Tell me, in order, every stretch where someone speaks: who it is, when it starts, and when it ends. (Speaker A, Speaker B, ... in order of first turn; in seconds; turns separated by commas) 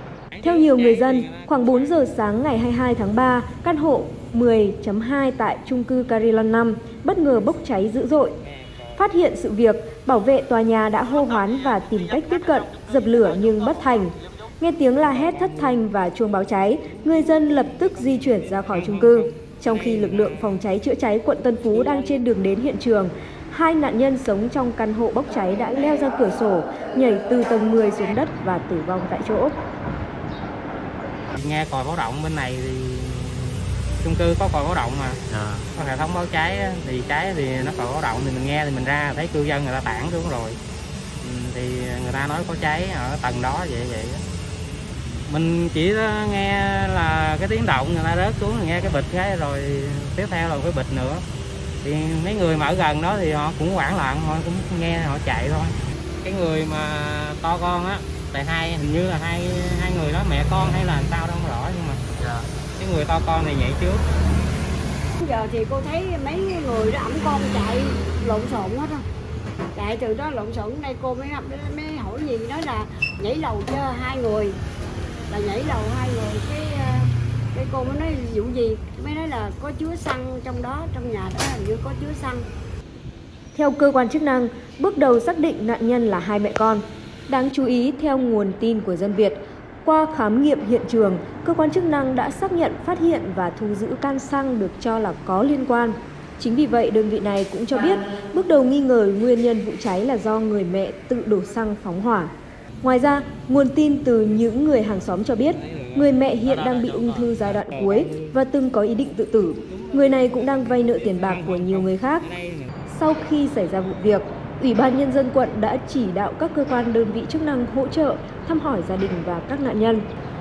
Speaker A: 0.3-1.9, Speaker B: 0.4-8.4, Speaker B: 8.9-29.5, Speaker A: 18.7-19.3, Speaker A: 31.3-40.6, Speaker A: 41.2-44.2, Speaker A: 45.3-51.2, Speaker A: 51.8-64.0, Speaker C: 65.2-69.0, Speaker C: 69.8-74.6, Speaker C: 75.3-82.5, Speaker B: 83.5-102.3, Speaker B: 102.8-112.3, Speaker A: 105.6-108.4, Speaker A: 109.6-112.7, Speaker B: 112.9-120.0